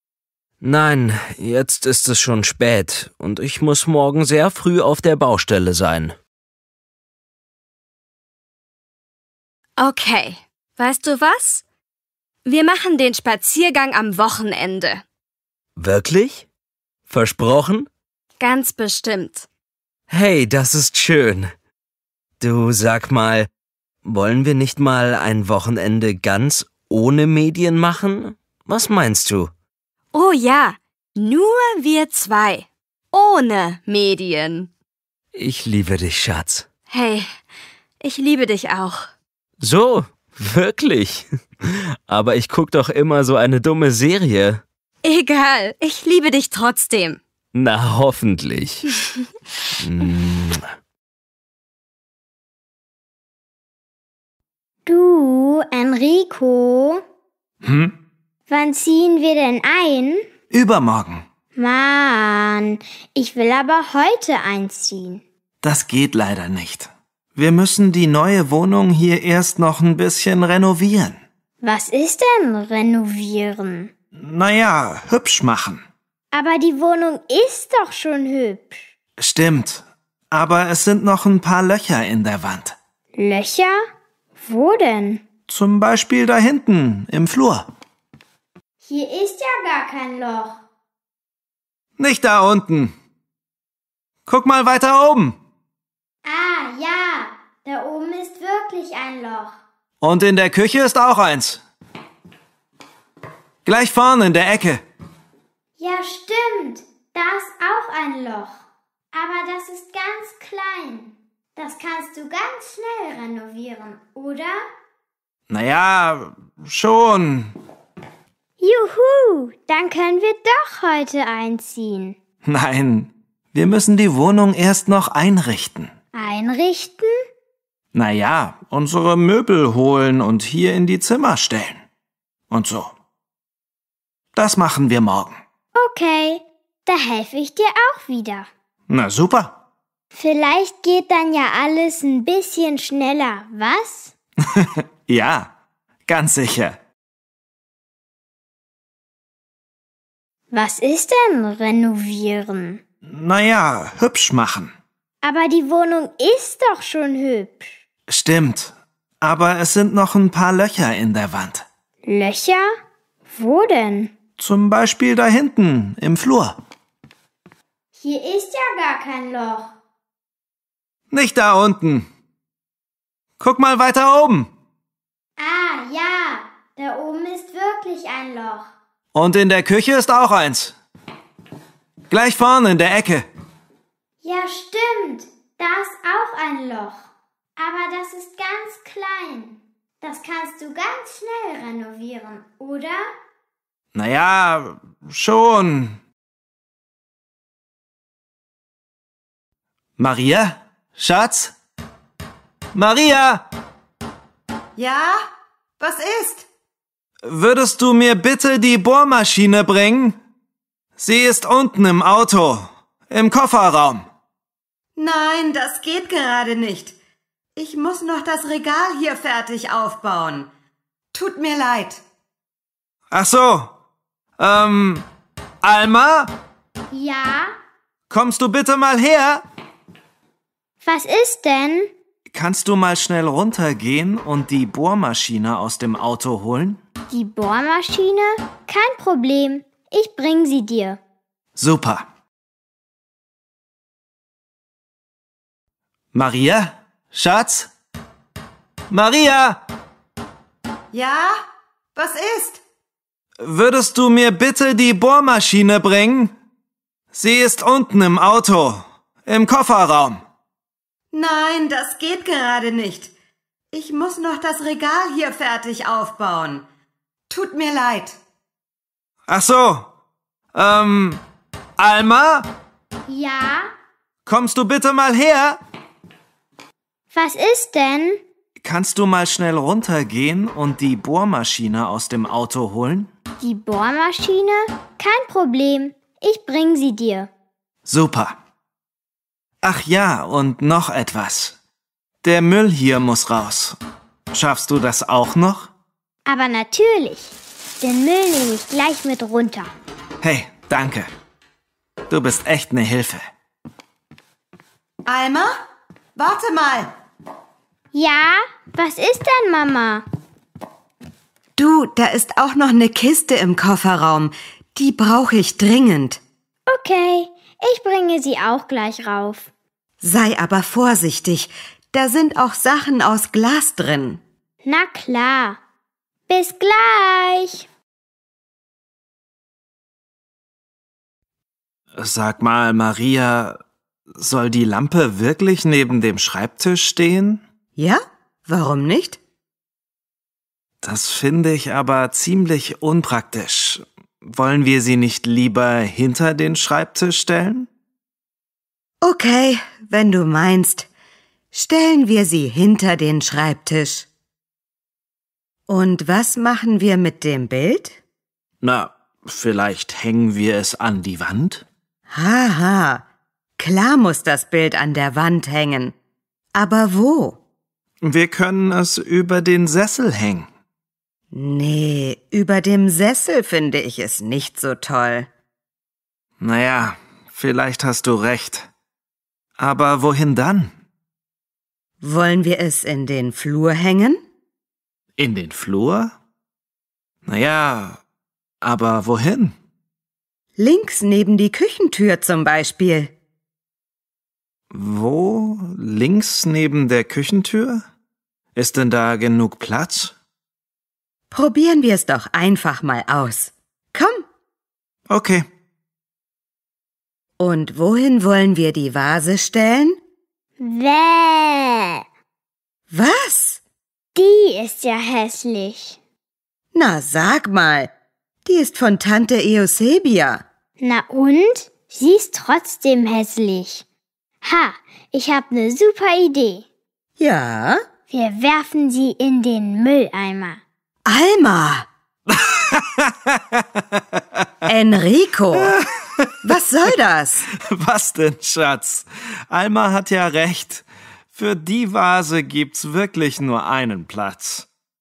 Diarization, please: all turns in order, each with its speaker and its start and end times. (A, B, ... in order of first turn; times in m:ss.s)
0:00.6-0:06.2 A
0:09.8-0:11.6 B
0:12.5-0:15.0 B
0:15.8-0:16.5 A
0:17.1-0:17.9 A
0:18.4-0:19.5 B
0:20.1-0:21.5 A
0:22.4-0:23.5 A
0:24.0-0:29.5 A
0:30.1-0:34.7 B
0:35.3-0:36.7 A
0:36.9-0:37.3 B
0:38.0-0:39.1 B
0:39.6-0:44.6 A
0:45.0-0:47.2 B
0:47.5-0:48.8 A
0:49.8-0:50.6 A
0:54.9-0:57.0 C
0:57.6-0:57.9 D
0:58.5-1:00.3 C
1:00.5-1:01.2 D
1:01.6-1:05.2 C
1:05.6-1:11.2 D
1:11.6-1:13.9 C
1:14.2-1:15.8 D
1:16.3-1:18.8 C
1:19.2-1:22.8 D
1:23.2-1:23.8 C
1:24.4-1:25.2 C
1:25.5-1:27.7 D
1:28.8-1:30.6 C
1:32.0-1:32.9 D
1:34.3-1:35.4 D
1:36.2-1:39.6 C
1:40.0-1:41.6 D
1:43.6-1:44.8 D
1:45.8-1:48.6 C
1:49.1-1:54.6 C
1:55.5-1:57.5 D
1:58.6-2:02.2 C
2:02.5-2:05.9 D
2:06.1-2:07.1 C
2:07.9-2:11.8 D
2:12.5-2:12.9 D
2:14.4-2:15.4 D
2:15.8-2:18.5 C
2:18.9-2:19.6 D
2:20.1-2:24.1 C
2:24.6-2:25.5 D
2:26.1-2:26.8 D
2:30.5-2:32.8 C
2:33.1-2:34.7 D
2:35.2-2:37.7 C
2:38.1-2:41.7 D
2:42.1-2:42.7 C
2:43.3-2:44.1 C
2:44.4-2:46.6 D
2:47.9-2:49.7 C
2:51.1-2:52.1 D
2:53.4-2:54.5 D
2:55.4-2:58.7 C
2:59.1-3:00.8 D
3:02.1-3:03.2 D
3:04.2-3:07.0 C
3:07.6-3:13.1 C
3:13.9-3:16.0 D
3:20.0-3:21.5 D
3:22.7-3:23.4 D
3:24.8-3:25.2 E
3:25.8-3:26.5 E
3:27.3-3:30.2 D
3:31.0-3:34.0 D
3:35.0-3:37.0 E
3:37.6-3:40.5 E
3:41.1-3:42.0 E
3:43.1-3:43.7 D
3:44.4-3:45.1 D
3:45.6-3:46.3 D
3:46.9-3:47.5 C
3:48.1-3:49.4 D
3:50.8-3:51.9 C
3:52.3-3:56.8 D
3:57.1-4:01.0 C
4:01.6-4:02.1 D
4:06.1-4:07.7 D
4:08.9-4:09.6 D
4:10.9-4:11.4 E
4:12.0-4:12.6 E
4:13.4-4:16.3 D
4:17.1-4:20.2 D
4:21.1-4:23.1 E
4:23.7-4:26.7 E
4:27.3-4:28.2 E
4:29.3-4:29.9 D
4:30.5-4:31.2 D
4:31.8-4:32.5 D
4:33.1-4:33.7 C
4:34.3-4:35.6 D
4:37.1-4:38.2 C
4:38.6-4:43.1 D
4:43.4-4:47.3 C
4:47.9-4:48.4 D
4:49.6-4:51.6 D
4:52.2-4:53.8 D
4:54.3-4:55.7 D
4:56.3-4:59.7 C
5:00.2-5:01.1 D
5:02.1-5:03.2 D
5:05.1-5:05.6 E
5:06.2-5:06.9 E
5:07.9-5:10.0 C
5:11.6-5:16.2 E
5:16.7-5:19.5 C
5:20.0-5:24.2 E
5:24.6-5:25.6 C
5:26.3-5:27.7 C
5:32.0-5:33.6 D
5:34.2-5:37.4 D
5:37.8-5:39.2 E
5:40.8-5:47.7 D
5:49.0-5:50.9 E
5:51.5-5:54.1 E
5:55.7-5:58.0 E
5:58.6-6:01.6 D
6:02.1-6:03.0 E
6:03.6-6:06.0 E
6:06.6-6:07.4 E
6:08.0-6:10.5 D
6:11.3-6:15.3 E
6:16.4-6:18.7 D
6:19.6-6:20.7 D
6:22.0-6:24.2 E
6:25.2-6:26.1 D
6:27.3-6:28.0 D
6:28.6-6:29.6 D
6:30.6-6:33.1 E
6:34.7-6:37.8 D
6:38.6-6:40.1 D
6:41.3-6:44.3 E
6:45.1-6:45.4 D
6:47.4-6:50.0 E
6:50.6-6:52.0 C
6:52.9-6:53.6 E
6:54.2-6:56.0 C
6:56.7-6:57.9 E
6:58.4-7:00.4 E
7:00.8-7:03.8 C
7:04.4-7:06.6 C
7:07.2-7:07.8 E
7:08.1-7:10.6 C
7:11.1-7:11.9 E
7:12.3-7:13.6 D
7:14.7-7:15.7 E
7:16.4-7:17.5 E
7:17.7-7:24.7 D